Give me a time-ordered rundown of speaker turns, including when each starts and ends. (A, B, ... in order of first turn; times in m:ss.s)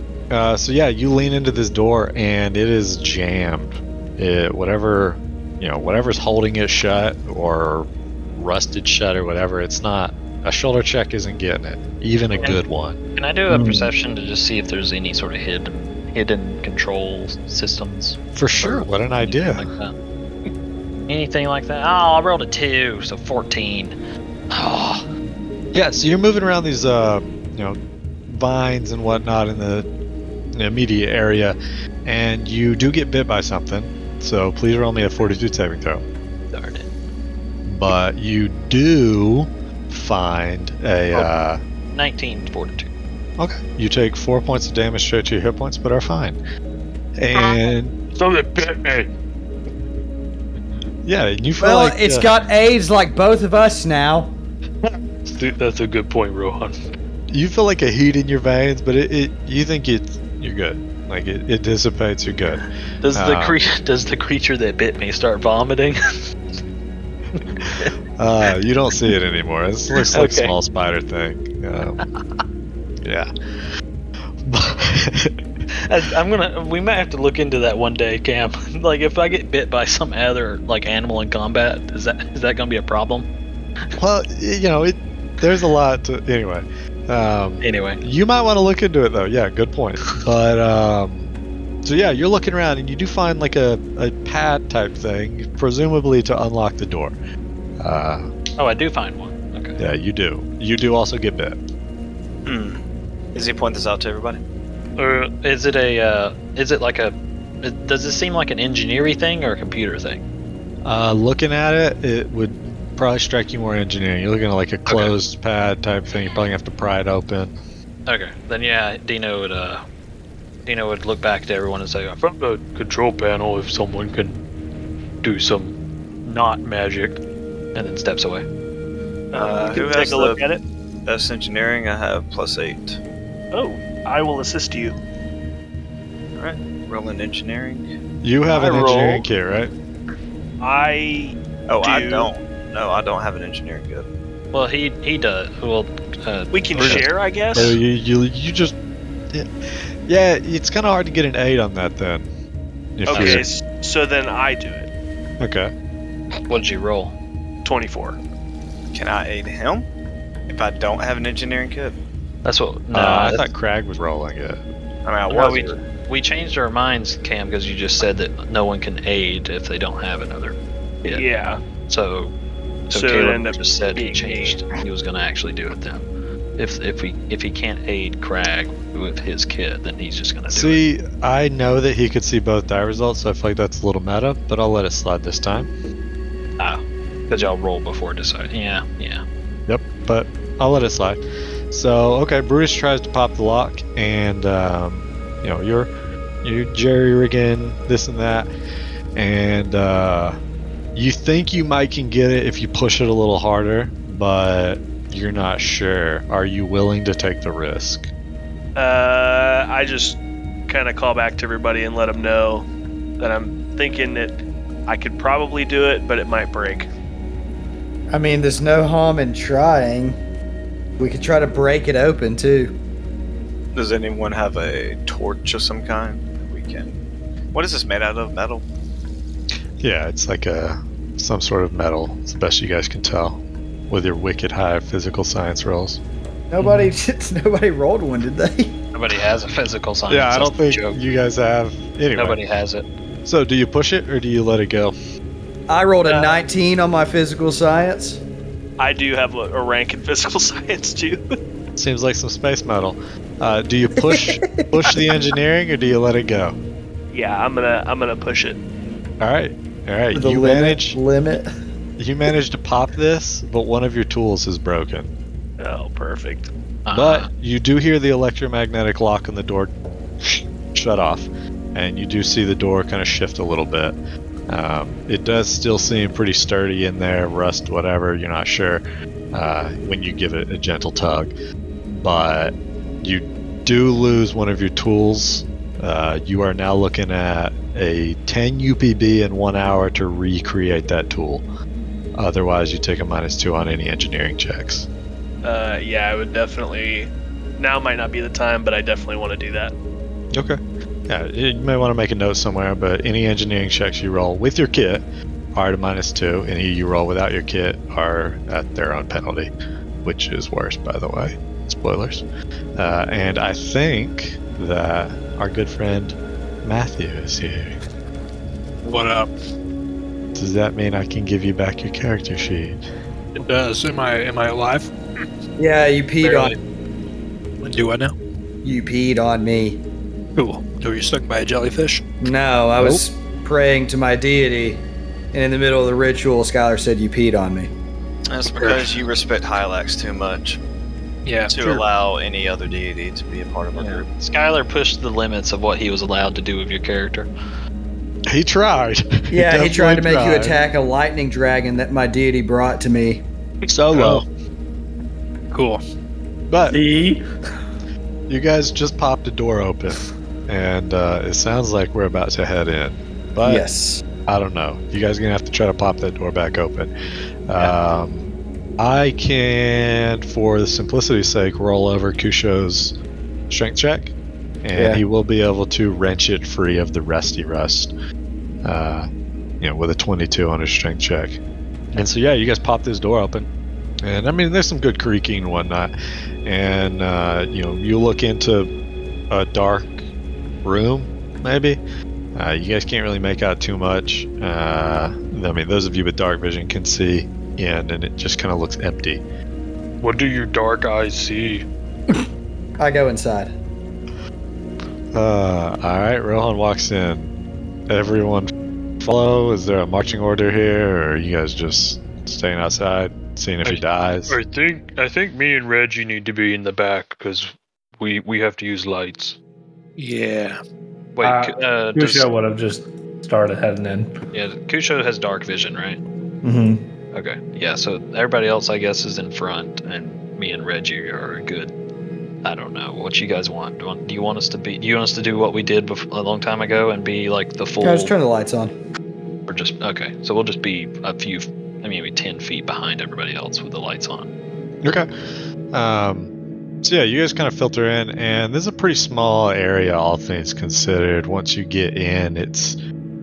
0:00.3-0:13.0 A
0:12.3-0:12.6 B
0:13.2-0:19.9 B
0:13.5-0:13.8 C
0:18.3-0:19.7 A
0:21.1-0:23.9 B
0:24.5-0:25.1 B
0:25.7-0:29.9 A
0:30.5-0:36.0 A
0:36.5-0:36.9 B
0:37.6-0:41.6 A
0:41.9-0:42.9 B
0:43.4-0:46.4 A
0:47.2-0:48.0 A
0:48.1-0:49.1 D
0:51.0-0:52.3 A
0:51.6-0:54.4 C
0:54.8-0:56.8 D
0:57.3-1:03.6 A
1:03.0-1:06.0 B
1:07.4-1:07.9 B
1:08.2-1:12.0 A
1:09.9-1:10.5 B
1:13.0-1:13.3 A
1:14.4-1:15.3 A
1:15.8-1:23.3 B
1:24.0-1:31.3 A
1:27.6-1:28.0 B
1:31.8-1:37.2 A
1:37.8-1:38.3 A
1:38.6-1:39.8 B
1:39.8-1:41.6 A
1:42.4-1:42.8 E
1:43.3-1:44.4 E
1:45.0-1:45.3 D
1:45.3-1:50.2 B
1:50.8-1:57.5 A
1:54.8-1:55.2 B
1:58.1-1:59.8 B
2:00.6-2:02.2 B
2:02.2-2:04.4 D
2:05.2-2:07.2 D
2:07.7-2:08.4 B
2:09.3-2:10.6 F
2:09.3-2:10.4 E
2:11.0-2:13.0 E
2:13.5-2:15.0 F
2:16.4-2:17.9 E
2:18.2-2:19.7 A
2:18.5-2:19.3 F
2:20.6-2:22.3 F
2:21.7-2:24.1 E
2:24.5-2:27.1 B
2:26.5-2:27.8 F
2:26.8-2:28.8 A
2:30.1-2:32.3 A
2:33.0-2:33.4 A
2:33.1-2:34.9 F
2:33.1-2:33.4 B
2:35.4-2:35.7 A
2:36.5-2:37.1 B
2:37.6-2:38.2 F
2:38.9-2:39.8 E
2:40.5-2:42.0 E
2:42.4-2:43.5 B
2:42.9-2:44.6 A
2:45.0-2:45.8 E
2:45.3-2:51.2 B
2:51.1-2:51.6 F
2:51.9-2:52.3 B
2:52.9-2:54.6 F
2:52.9-2:56.0 B
2:56.6-3:00.8 B
3:00.5-3:05.7 A
3:06.6-3:09.2 B
3:09.7-3:15.9 A
3:16.4-3:18.5 A
3:19.1-3:20.4 A
3:20.9-3:28.1 A
3:28.8-3:32.7 F
3:33.2-3:36.9 F
3:38.1-3:40.2 C
3:41.0-3:42.8 C
3:43.7-3:47.0 E
3:47.5-3:48.6 E
3:49.8-3:56.0 A
3:56.5-3:58.8 C
3:58.9-4:01.0 B
4:00.1-4:02.4 A
4:02.2-4:02.8 B
4:03.2-4:04.9 A
4:05.7-4:08.2 C
4:06.0-4:06.4 F
4:08.8-4:11.2 F
4:11.8-4:16.6 A
4:13.9-4:15.0 C
4:17.1-4:18.6 F
4:19.2-4:21.0 A
4:20.1-4:21.5 C
4:22.0-4:25.1 A
4:25.6-4:26.5 F
4:26.8-4:27.3 B
4:26.9-4:29.7 A
4:30.2-4:34.0 A
4:34.5-4:41.3 A
4:42.0-4:51.4 A
4:52.2-4:54.9 A
4:55.4-4:59.7 F
5:00.3-5:09.5 A
5:10.0-5:12.2 A
5:12.8-5:17.8 A
5:18.8-5:19.3 G
5:20.3-5:22.8 A
5:23.3-5:24.9 G
5:25.6-5:26.6 C
5:26.2-5:26.6 B
5:27.6-5:28.1 G
5:28.6-5:29.8 C
5:30.4-5:32.0 G
5:32.2-5:37.7 C
5:38.3-5:40.6 E
5:38.6-5:38.9 G
5:41.2-5:41.8 G
5:41.5-5:44.1 E
5:43.7-5:47.3 B
5:48.3-5:50.6 A
5:49.3-5:53.2 C
5:53.7-5:54.2 A
5:53.9-5:54.2 G
5:55.5-5:55.8 G
5:56.5-5:56.8 A
5:56.7-5:57.2 H
5:58.3-6:03.6 A
6:03.4-6:04.0 C
6:04.2-6:06.9 A
6:07.5-6:08.2 A
6:08.8-6:13.0 A
6:13.5-6:17.9 A
6:14.7-6:15.0 C
6:18.6-6:19.1 A
6:19.6-6:21.4 A
6:21.9-6:23.5 A
6:24.0-6:25.9 A
6:26.4-6:28.7 A
6:29.3-6:30.0 A
6:30.6-6:31.8 A
6:32.3-6:39.2 A
6:40.0-6:41.6 D
6:42.8-6:43.5 C
6:45.1-6:47.3 A
6:47.9-6:54.4 A
6:53.6-6:59.4 D
7:00.0-7:00.6 G
7:01.2-7:02.3 B
7:01.2-7:04.1 H
7:04.3-7:06.0 B
7:06.4-7:06.9 H
7:07.1-7:11.7 B
7:12.4-7:18.1 B
7:17.8-7:18.7 C
7:19.5-7:24.3 B
7:24.8-7:25.1 A
7:25.7-7:26.3 A
7:26.8-7:32.8 A